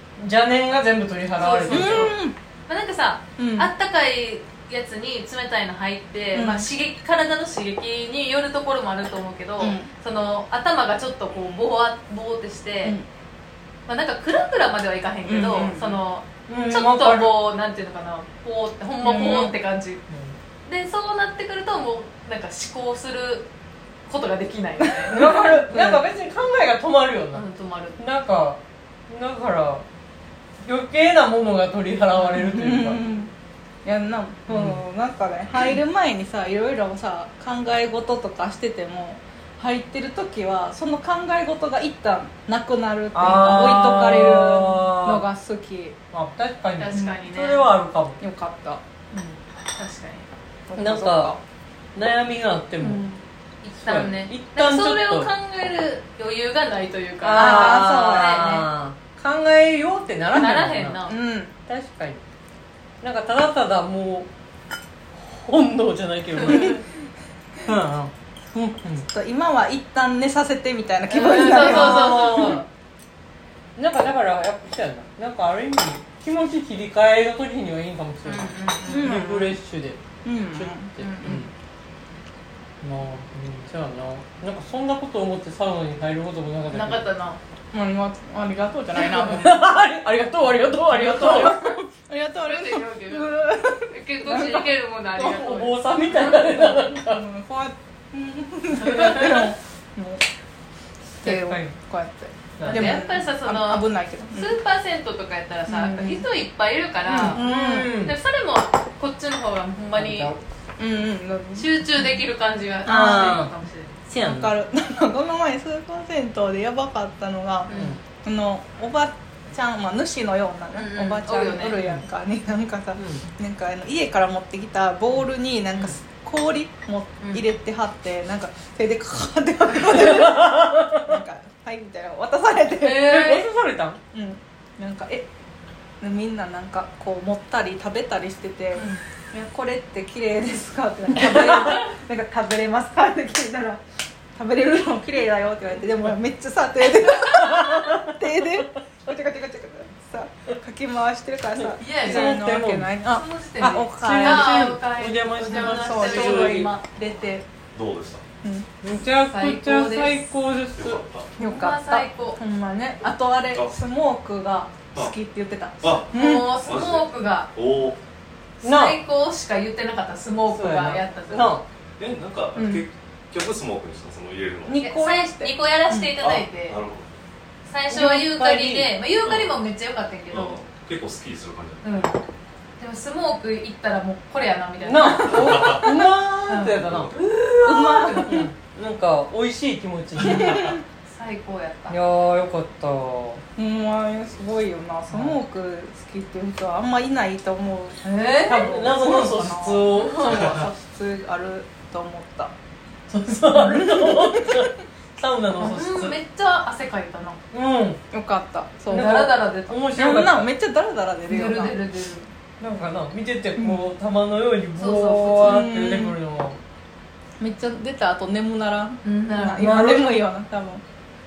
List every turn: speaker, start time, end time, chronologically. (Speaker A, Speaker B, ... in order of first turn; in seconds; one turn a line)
Speaker A: 0.2-2.1
Speaker B: 1.4-2.1
Speaker C: 1.7-2.4
Speaker B: 2.7-13.0
Speaker C: 3.4-3.7
Speaker C: 6.3-6.7
Speaker C: 9.6-9.9
Speaker B: 13.9-20.0
Speaker C: 15.2-16.0
Speaker A: 16.5-17.3
Speaker C: 19.0-19.6
Speaker A: 20.1-20.3
Speaker B: 20.6-23.5
Speaker B: 24.1-26.0
Speaker C: 24.9-25.9
Speaker A: 25.1-27.4
Speaker B: 27.3-28.0
Speaker A: 28.0-29.8
Speaker A: 30.6-33.0
Speaker C: 32.3-33.3
Speaker C: 33.8-46.0
Speaker A: 34.5-34.8
Speaker A: 43.1-45.2
Speaker A: 46.1-48.2
Speaker B: 46.8-47.7
Speaker C: 46.9-47.2
Speaker C: 48.2-48.8
Speaker B: 49.1-50.3
Speaker C: 50.7-51.4
Speaker A: 50.8-51.4
Speaker A: 51.9-53.0
Speaker C: 52.8-53.2
Speaker B: 53.6-58.7
Speaker A: 53.8-55.3
Speaker A: 57.2-61.0
Speaker C: 57.3-58.5
Speaker B: 60.3-61.1
Speaker C: 61.1-61.5
Speaker A: 61.7-62.2
Speaker A: 63.0-64.3
Speaker A: 65.1-66.8
Speaker B: 66.4-66.8
Speaker A: 67.6-69.1
Speaker C: 69.1-72.6
Speaker B: 71.1-72.7
Speaker A: 71.3-72.6
Speaker A: 73.8-81.5
Speaker B: 78.2-79.1
Speaker C: 78.8-79.6
Speaker C: 80.2-81.0
Speaker B: 81.0-81.5
Speaker A: 82.8-87.0
Speaker B: 86.7-87.4
Speaker C: 87.7-89.8
Speaker A: 88.9-91.6
Speaker C: 90.9-94.7
Speaker B: 91.2-91.8
Speaker B: 92.4-96.4
Speaker A: 95.2-97.2
Speaker C: 96.3-100.2
Speaker B: 98.7-99.5
Speaker A: 98.9-99.4
Speaker C: 101.2-104.6
Speaker A: 101.2-101.8
Speaker A: 102.6-103.0
Speaker B: 102.6-110.4
Speaker C: 105.7-106.2
Speaker A: 107.0-108.1
Speaker C: 107.2-107.9
Speaker A: 109.9-110.4
Speaker C: 110.8-111.7
Speaker B: 111.5-114.0
Speaker C: 112.8-113.4
Speaker A: 112.9-113.5
Speaker A: 114.0-114.5
Speaker C: 114.2-117.7
Speaker B: 117.7-118.0
Speaker A: 117.7-118.0
Speaker C: 118.2-133.5
Speaker B: 120.8-121.8
Speaker A: 123.0-123.3
Speaker A: 130.0-131.0
Speaker A: 132.8-134.0
Speaker C: 134.1-135.3
Speaker C: 136.0-143.8
Speaker B: 138.8-139.0
Speaker C: 144.3-154.7
Speaker A: 147.3-148.1
Speaker A: 151.6-152.9
Speaker B: 151.8-152.4
Speaker B: 153.0-156.8
Speaker A: 153.6-156.7
Speaker C: 155.5-157.4
Speaker D: 157.7-158.2
Speaker A: 158.8-161.0
Speaker B: 159.2-160.3
Speaker D: 160.8-161.3
Speaker C: 161.4-166.6
Speaker B: 161.4-162.4
Speaker D: 165.8-168.0
Speaker B: 166.1-167.5
Speaker B: 168.6-171.6
Speaker A: 168.6-169.0
Speaker A: 170.5-171.6
Speaker D: 172.0-174.8
Speaker C: 172.5-172.8
Speaker C: 174.7-176.1
Speaker B: 174.8-176.8
Speaker A: 174.8-175.1
Speaker D: 176.2-177.1
Speaker B: 177.7-180.6
Speaker A: 177.9-178.9
Speaker D: 179.2-179.6
Speaker D: 180.3-181.9
Speaker B: 181.8-182.2
Speaker B: 182.8-185.9
Speaker A: 184.8-187.1
Speaker D: 185.3-185.9
Speaker B: 186.5-188.5
Speaker D: 186.9-187.2
Speaker C: 187.6-188.5
Speaker A: 188.2-190.7
Speaker C: 190.2-190.8
Speaker B: 191.0-191.9
Speaker A: 191.9-193.4
Speaker C: 193.6-202.5
Speaker A: 195.1-195.4
Speaker B: 198.0-198.7
Speaker A: 198.4-200.6
Speaker B: 199.9-200.7
Speaker A: 203.1-206.2
Speaker C: 203.5-204.8
Speaker B: 205.6-207.4
Speaker A: 207.5-208.0
Speaker C: 208.1-209.3
Speaker A: 208.9-210.5
Speaker B: 208.9-209.8
Speaker C: 209.9-211.7
Speaker B: 211.3-212.3
Speaker A: 212.6-216.6
Speaker C: 213.6-213.8
Speaker B: 214.8-215.6
Speaker C: 215.4-216.2
Speaker C: 217.4-220.8
Speaker B: 219.0-219.7
Speaker A: 219.6-220.2